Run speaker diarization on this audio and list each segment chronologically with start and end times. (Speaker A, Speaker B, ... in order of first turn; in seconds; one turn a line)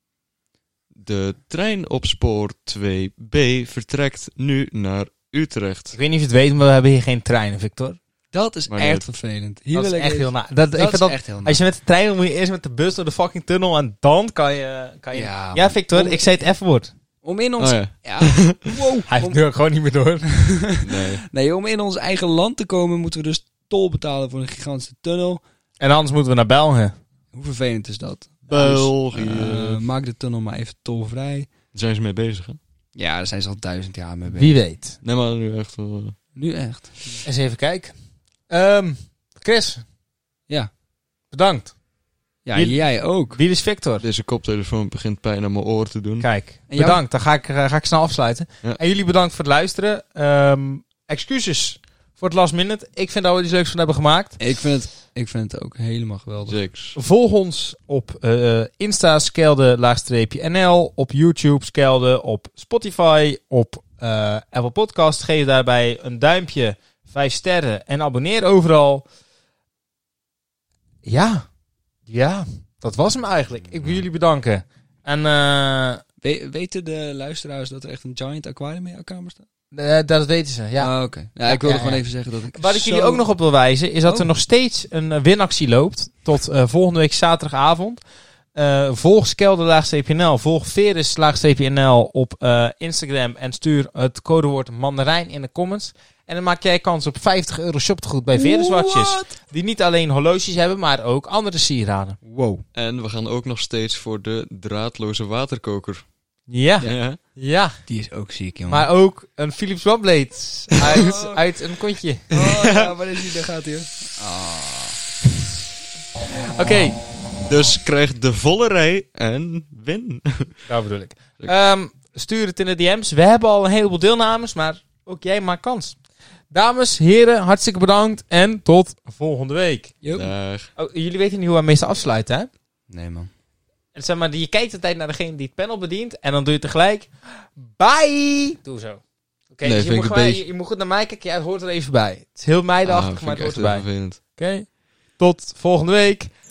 Speaker A: 0.9-6.0
Speaker B: 5.9-8.0
Speaker C: 8.3-11.6
Speaker A: 8.7-9.1
Speaker B: 9.7-16.9
Speaker C: 15.1-16.5
Speaker C: 17.2-19.4
Speaker A: 17.6-18.6
Speaker B: 19.1-20.6
Speaker C: 20.6-25.4
Speaker A: 20.8-21.2
Speaker B: 25.8-27.0
Speaker C: 27.3-31.5
Speaker A: 28.5-29.8
Speaker A: 31.7-32.6
Speaker C: 33.0-34.6
Speaker B: 34.3-35.0
Speaker A: 35.0-36.2
Speaker C: 36.3-37.3
Speaker B: 37.2-38.0
Speaker B: 38.5-39.9
Speaker B: 41.3-41.8
Speaker C: 42.5-43.4
Speaker B: 42.5-44.0
Speaker A: 44.0-46.3
Speaker B: 46.2-54.4
Speaker C: 46.7-47.0
Speaker C: 54.4-56.6
Speaker A: 56.5-57.0
Speaker B: 57.0-69.1
Speaker B: 71.0-71.5
Speaker B: 72.1-76.0
Speaker C: 76.2-79.5
Speaker B: 79.7-88.0
Speaker C: 80.8-83.2
Speaker B: 88.5-102.2
Speaker C: 98.4-99.3
Speaker C: 102.2-102.6
Speaker A: 102.7-106.1
Speaker B: 106.5-107.8
Speaker A: 106.8-107.2
Speaker C: 107.9-108.9
Speaker B: 108.7-112.9
Speaker C: 110.9-111.5
Speaker C: 112.3-115.0
Speaker B: 116.5-117.0
Speaker A: 117.5-120.7
Speaker B: 120.7-126.0
Speaker B: 126.5-130.0
Speaker C: 130.0-130.3
Speaker A: 130.1-130.7
Speaker B: 130.8-132.5
Speaker C: 132.9-133.3
Speaker B: 133.9-146.3
Speaker A: 139.6-140.5
Speaker A: 142.8-144.2